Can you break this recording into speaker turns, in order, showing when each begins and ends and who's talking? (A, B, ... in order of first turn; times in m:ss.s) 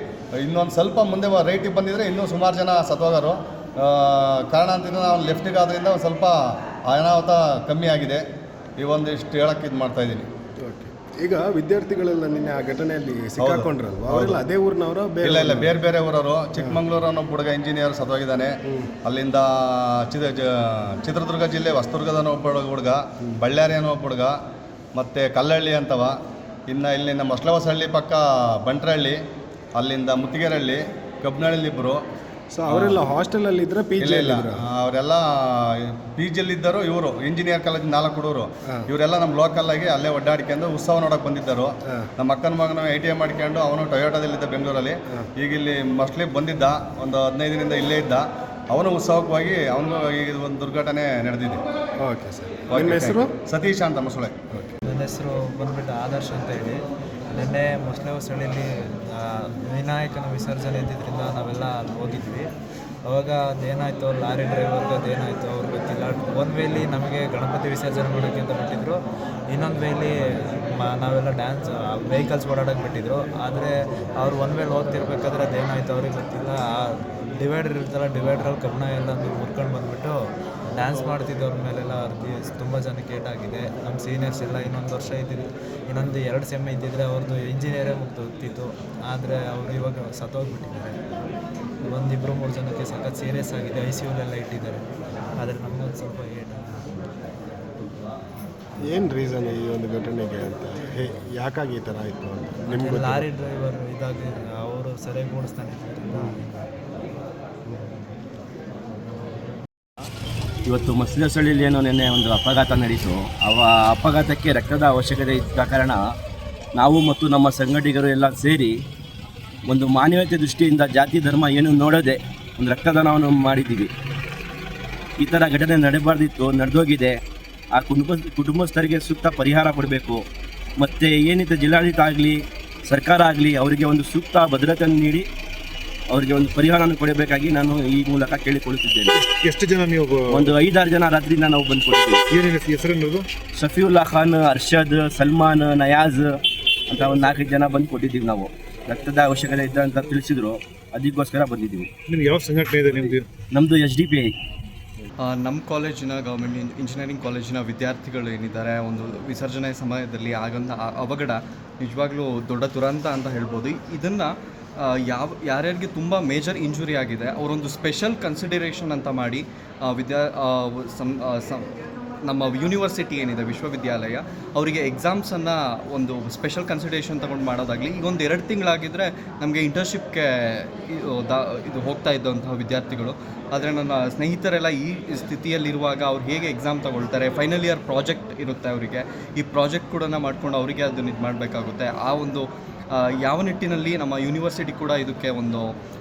0:00.4-0:08.2 A
0:08.8-0:10.2 A
0:10.6-0:15.8 B
0:13.4-0:14.4 A
0:15.2-0:18.5 A
0:16.6-0:16.8 B
0:19.0-0:24.3 A
0:24.9-0:26.1 A
0:26.7-0:29.2 A
0:29.7-0:32.0 A
0:32.5-0:34.6 B
0:32.7-0:33.0 A
0:34.0-0:51.6 A
0:52.0-0:53.3 B
0:52.7-0:54.3 A
0:54.9-0:56.8 C
0:57.3-0:58.6 C
0:59.6-1:02.4 C
1:03.1-1:09.0 C
1:09.5-1:13.7 C
1:14.2-1:16.6 C
1:17.4-1:20.2 C
1:20.8-1:31.0 C
1:31.9-1:34.8 C
1:35.4-1:36.8 C
1:38.9-1:43.2 B
1:42.7-1:46.3 C
1:46.1-1:46.4 B
1:50.7-1:56.0 D
1:56.8-1:58.7 D
1:59.7-2:03.9 D
2:05.2-2:07.2 D
2:07.7-2:10.2 D
2:10.8-2:15.3 D
2:16.1-2:19.2 D
2:19.5-2:20.3 E
2:20.3-2:22.2 D
2:22.4-2:23.2 E
2:23.6-2:26.3 D
2:26.9-2:31.9 D
2:32.1-2:33.2 E
2:33.5-2:34.3 D
2:35.2-2:51.6 F
2:52.2-3:15.7 F